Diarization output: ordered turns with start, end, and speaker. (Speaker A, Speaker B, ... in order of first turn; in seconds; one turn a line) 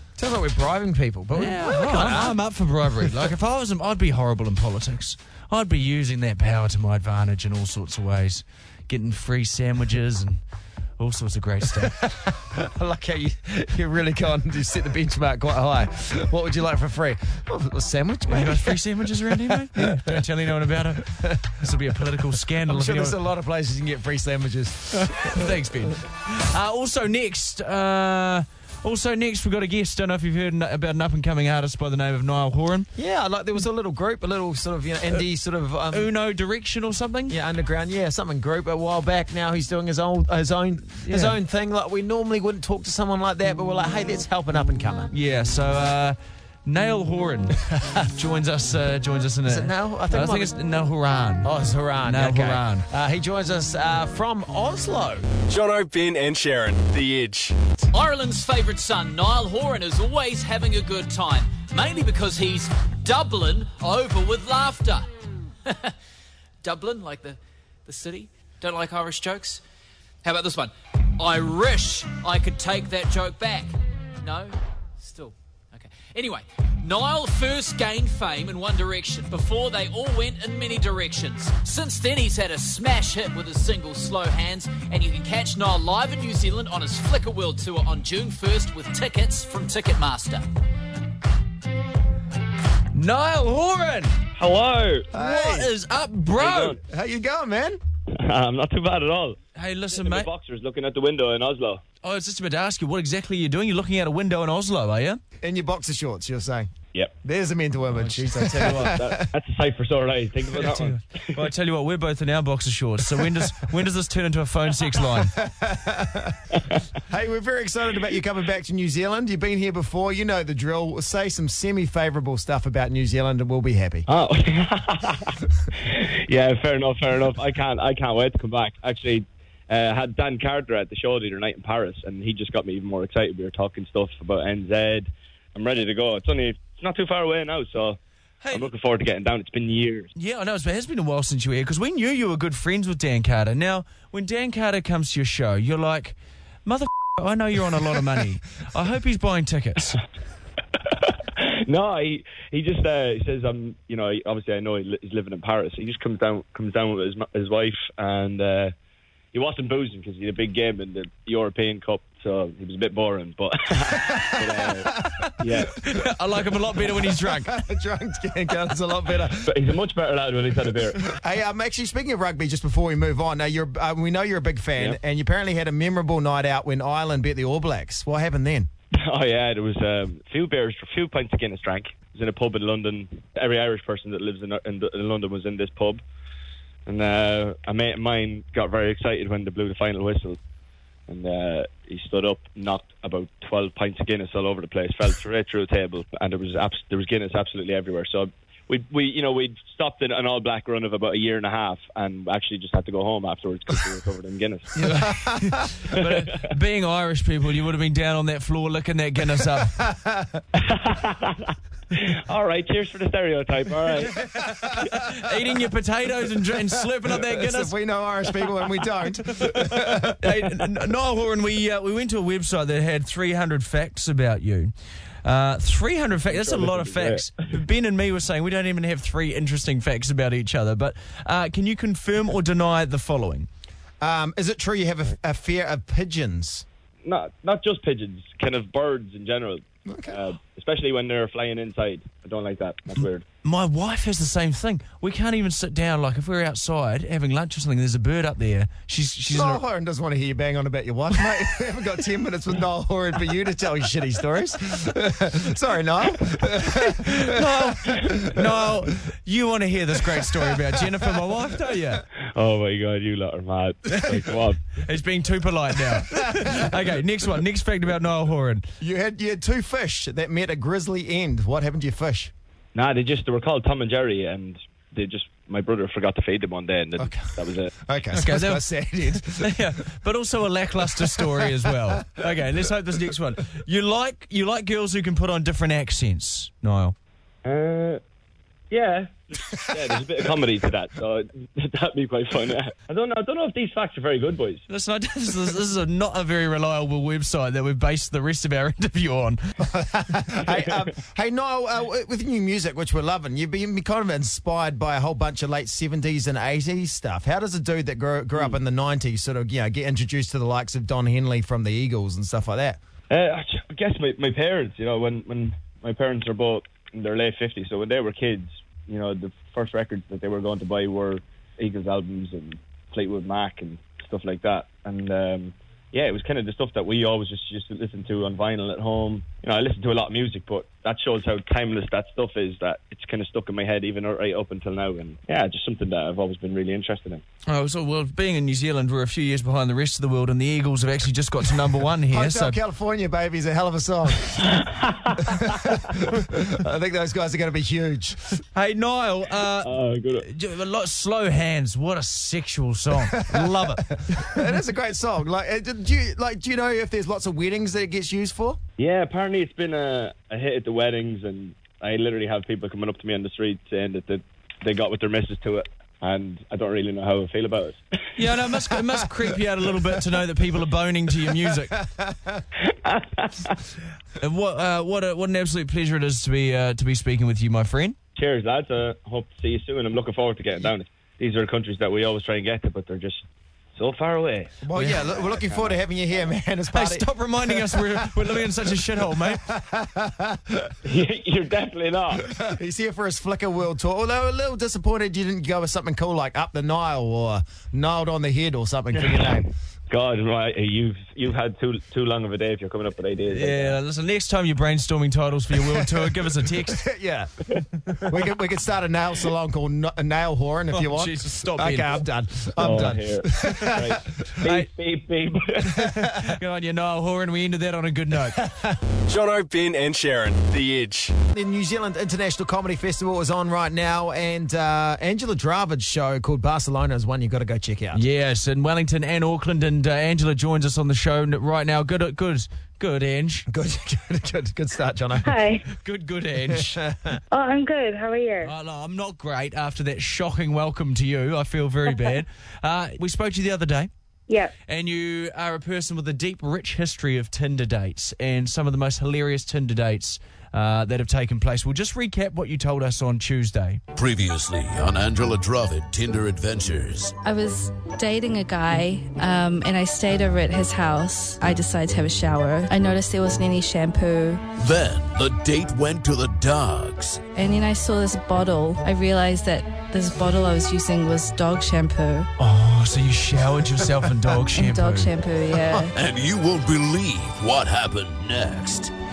Speaker A: 0.2-2.4
Speaker B: 1.3-10.4
Speaker B: 11.0-12.0
Speaker A: 11.8-20.1
Speaker B: 18.3-23.2
Speaker A: 20.9-21.5
Speaker A: 22.7-25.5
Speaker B: 25.0-32.9
Speaker A: 33.0-36.1
Speaker B: 35.9-37.4
Speaker A: 37.3-45.1
Speaker B: 41.0-41.4
Speaker B: 45.1-51.5
Speaker A: 49.5-50.5
Speaker A: 51.4-55.3
Speaker B: 52.0-52.9
Speaker C: 55.5-57.6
Speaker D: 57.9-65.1
Speaker D: 65.6-65.9
Speaker D: 66.6-69.6
Speaker D: 70.2-90.4
Speaker B: 92.9-94.2
Speaker E: 94.3-95.1
Speaker A: 95.1-95.7
Speaker B: 95.1-96.8
Speaker E: 96.3-96.8
Speaker A: 96.8-97.8
Speaker E: 98.1-99.4
Speaker B: 99.5-100.3
Speaker E: 99.9-101.8
Speaker B: 102.0-105.2
Speaker A: 105.4-109.2
Speaker B: 107.9-109.0
Speaker E: 108.8-111.4
Speaker B: 110.5-115.3
Speaker A: 115.2-116.4
Speaker A: 117.1-124.0
Speaker E: 124.1-138.0
Speaker B: 138.4-138.7
Speaker E: 138.5-140.1
Speaker B: 140.2-150.0
Speaker E: 150.8-158.7
Speaker E: 159.3-165.8
Speaker A: 164.8-165.1
Speaker B: 165.8-167.6
Speaker A: 166.9-169.5
Speaker E: 169.4-171.0
Speaker A: 171.0-178.7
Speaker E: 179.0-186.0
Speaker E: 186.8-190.4
Speaker E: 191.1-204.8
Speaker A: 204.8-205.6
Speaker B: 204.8-209.7
Speaker E: 206.0-206.5
Speaker A: 209.5-210.4
Speaker E: 210.6-214.2
Speaker A: 214.2-214.9
Speaker B: 214.9-217.7
Speaker A: 217.2-220.3
Speaker B: 219.3-224.7
Speaker B: 225.2-233.5
Speaker E: 226.3-227.3
Speaker A: 234.0-236.6
Speaker E: 237.0-243.2
Speaker A: 239.9-240.2
Speaker B: 243.4-249.6
Speaker A: 249.3-258.4
Speaker B: 257.1-262.0
Speaker E: 262.3-264.6
Speaker B: 264.7-268.7
Speaker A: 268.8-272.3
Speaker E: 272.7-277.7
Speaker A: 277.0-279.7
Speaker B: 278.1-286.9
Speaker A: 281.0-282.0
Speaker E: 287.4-288.0
Speaker E: 288.7-294.6
Speaker B: 294.7-299.4
Speaker A: 299.6-312.8
Speaker E: 313.1-337.2
Speaker B: 337.5-342.6
Speaker A: 342.1-344.4
Speaker E: 344.6-344.9
Speaker A: 345.2-348.2
Speaker B: 348.5-353.8
Speaker E: 349.6-350.3
Speaker A: 353.1-358.6
Speaker E: 358.8-367.8
Speaker B: 368.2-371.8
Speaker A: 371.5-372.4
Speaker E: 372.7-373.6
Speaker B: 374.2-378.0
Speaker E: 378.2-383.2
Speaker E: 383.8-384.6
Speaker A: 384.6-387.1
Speaker B: 384.7-385.0
Speaker E: 385.3-385.8
Speaker B: 386.7-389.4
Speaker A: 389.2-390.7
Speaker E: 390.8-392.3
Speaker A: 392.3-399.5
Speaker E: 398.9-403.8
Speaker B: 403.3-406.8
Speaker A: 406.6-407.3
Speaker A: 408.0-413.9
Speaker B: 410.7-412.0
Speaker E: 412.6-415.8
Speaker B: 415.8-418.4
Speaker A: 418.4-418.8
Speaker C: 419.1-421.1
Speaker A: 421.3-428.0
Speaker B: 427.9-433.5
Speaker A: 433.5-435.4
Speaker F: 435.2-435.6
Speaker B: 435.8-436.8
Speaker A: 436.5-437.2
Speaker F: 437.3-438.5
Speaker B: 438.4-443.9
Speaker F: 444.3-444.5
Speaker B: 444.7-453.8
Speaker G: 453.9-457.1
Speaker H: 457.2-464.4
Speaker G: 464.6-467.2
Speaker H: 467.3-472.3
Speaker B: 472.4-475.1
Speaker H: 474.5-475.9
Speaker G: 475.9-478.9